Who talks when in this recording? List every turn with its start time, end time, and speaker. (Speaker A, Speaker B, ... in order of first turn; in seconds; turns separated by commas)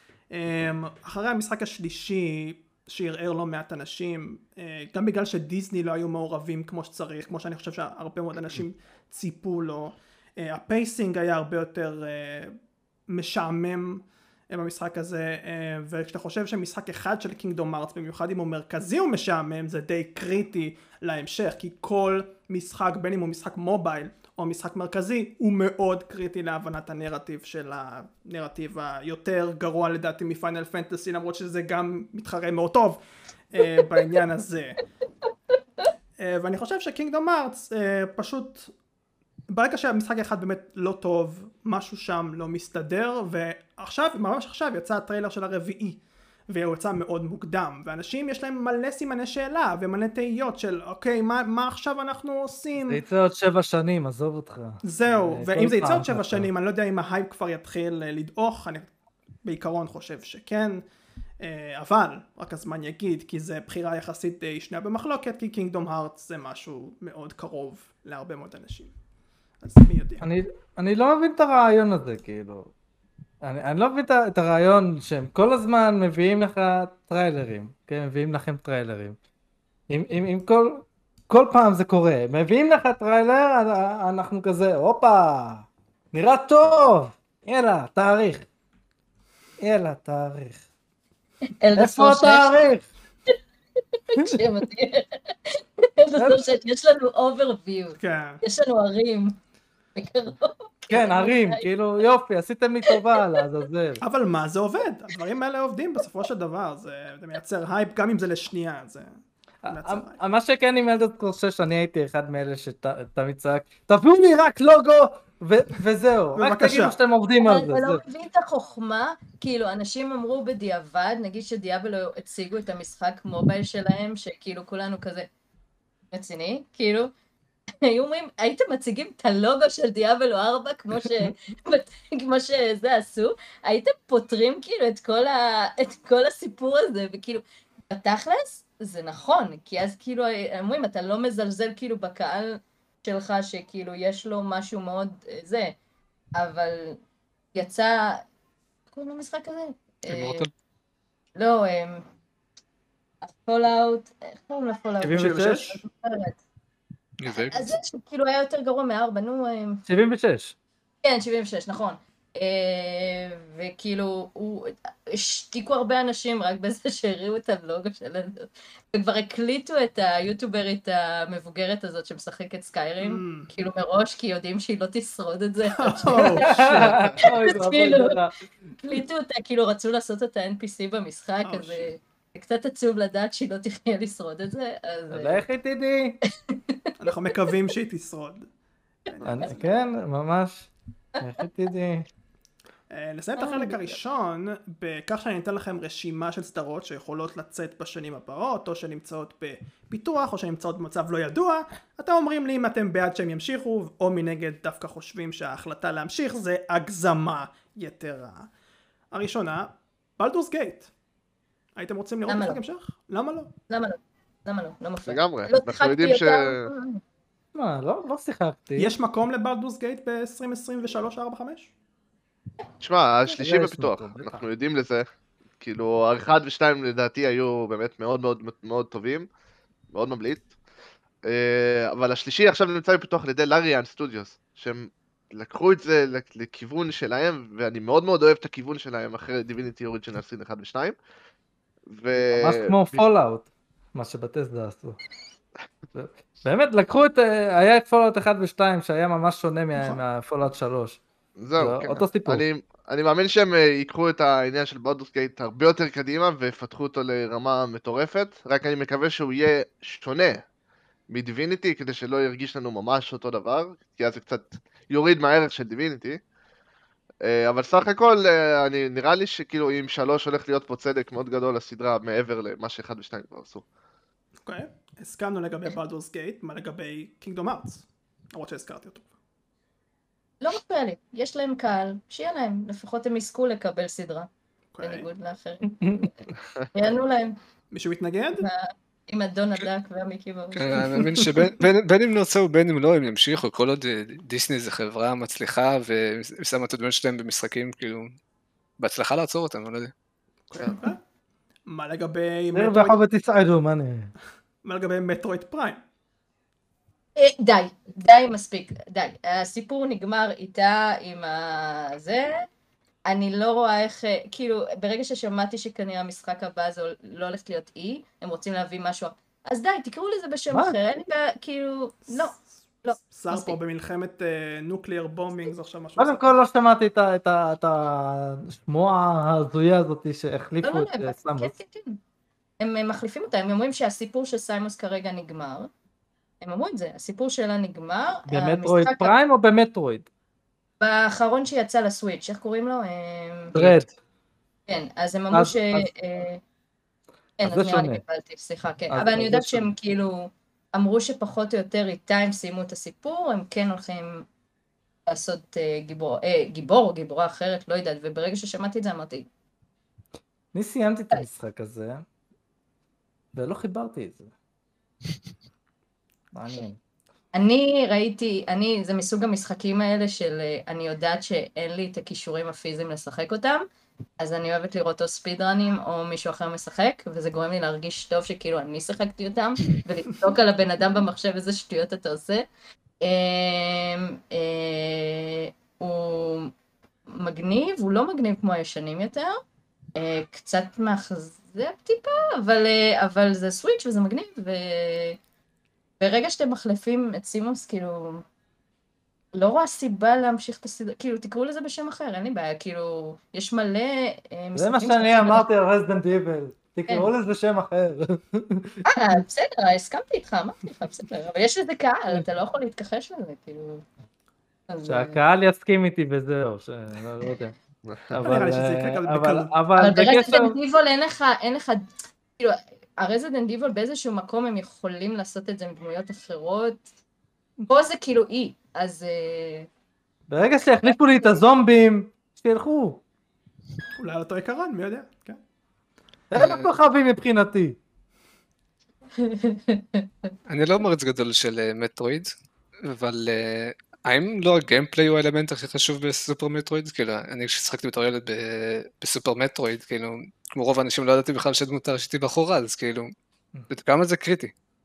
Speaker A: 0.3-12.6, Speaker A: 13.1-34.8, Speaker A: 36.2-38.7, Speaker A: 39.5-53.0, Speaker B: 52.9-56.5, Speaker A: 54.8-58.9, Speaker A: 59.4-60.8, Speaker A: 61.4-68.9, Speaker A: 69.6-70.3, Speaker B: 70.2-72.7, Speaker B: 73.4-79.2, Speaker B: 79.9-88.5, Speaker B: 89.6-90.6, Speaker C: 91.6-92.5, Speaker B: 91.8-92.9, Speaker C: 94.1-99.4, Speaker B: 96.2-96.5, Speaker A: 98.0-98.4, Speaker C: 100.0-101.7, Speaker B: 100.9-104.0, Speaker C: 102.9-103.2, Speaker A: 104.0-110.2, Speaker B: 109.6-118.0, Speaker A: 116.4-117.0, Speaker C: 117.4-125.3, Speaker C: 126.1-127.1, Speaker C: 127.8-145.8, Speaker C: 146.4-147.0, Speaker C: 147.5-148.2, Speaker C: 148.9-150.5, Speaker D: 150.1-150.5, Speaker C: 151.4-152.1, Speaker C: 153.2-156.4, Speaker B: 155.0-155.6, Speaker A: 155.1-155.8, Speaker D: 157.2-157.8, Speaker C: 157.3-159.8, Speaker B: 159.9-160.6, Speaker C: 161.0-178.2, Speaker A: 173.0-173.5, Speaker A: 175.7-177.0, Speaker B: 176.3-178.4, Speaker C: 178.8-185.4, Speaker A: 181.4-181.9, Speaker B: 185.1-186.2, Speaker C: 186.5-187.1, Speaker A: 187.0-188.5, Speaker A: 189.1-189.8, Speaker C: 189.1-189.6, Speaker B: 189.2-192.1, Speaker A: 192.9-208.5, Speaker C: 193.4-194.0, Speaker A: 209.1-210.9, Speaker A: 211.8-213.5, Speaker C: 212.3-212.6, Speaker C: 213.7-217.0, Speaker E: 215.1-216.7, Speaker B: 217.5-218.9, Speaker A: 218.8-221.7, Speaker E: 222.8-225.1, Speaker B: 223.3-224.5, Speaker E: 225.6-229.3, Speaker E: 229.9-230.5, Speaker E: 231.2-240.9, Speaker E: 241.9-243.0, Speaker B: 242.2-245.0, Speaker B: 245.9-251.0, Speaker E: 251.4-260.4, Speaker B: 251.6-252.4, Speaker E: 261.1-266.2, Speaker E: 267.2-273.6, Speaker A: 274.5-279.1, Speaker C: 280.4-284.3, Speaker A: 284.7-285.1, Speaker C: 284.8-286.1, Speaker B: 285.8-286.1, Speaker C: 286.7-287.4, Speaker A: 287.7-288.5, Speaker C: 288.4-291.0, Speaker D: 290.6-298.1, Speaker A: 291.2-291.5, Speaker D: 298.8-299.9, Speaker A: 300.5-301.0, Speaker A: 301.7-303.0, Speaker B: 302.5-304.1, Speaker A: 304.6-305.8, Speaker C: 307.2-312.5, Speaker C: 313.1-323.6, Speaker A: 322.1-322.4, Speaker A: 323.0-326.3, Speaker B: 326.0-331.5, Speaker C: 330.6-332.0, Speaker C: 332.6-335.7, Speaker C: 336.4-339.1, Speaker B: 338.3-340.1, Speaker C: 340.8-343.6, Speaker B: 343.5-343.9, Speaker C: 344.7-346.4, Speaker B: 345.3-345.9, Speaker C: 347.4-354.3, Speaker B: 347.5-348.0, Speaker B: 348.9-349.7, Speaker C: 355.1-359.3, Speaker B: 360.5-362.0, Speaker B: 363.4-364.3, Speaker B: 366.4-366.8, Speaker C: 367.3-373.6, Speaker C: 374.2-382.4, Speaker C: 383.0-386.5, Speaker C: 387.1-389.4, Speaker C: 390.0-395.2, Speaker C: 396.0-398.2, Speaker C: 399.4-405.4, Speaker B: 404.6-409.2, Speaker C: 408.9-413.8, Speaker C: 414.7-415.2, Speaker B: 414.9-417.5, Speaker E: 417.9-418.2, Speaker B: 418.1-420.6, Speaker A: 418.2-419.5, Speaker C: 419.8-426.9, Speaker C: 427.7-429.7, Speaker B: 430.3-433.0, Speaker C: 430.4-430.9, Speaker A: 434.0-435.4, Speaker B: 436.3-437.8, Speaker D: 436.4-436.7, Speaker C: 439.2-440.1, Speaker D: 440.5-442.3, Speaker D: 442.8-453.1, Speaker D: 453.7-454.5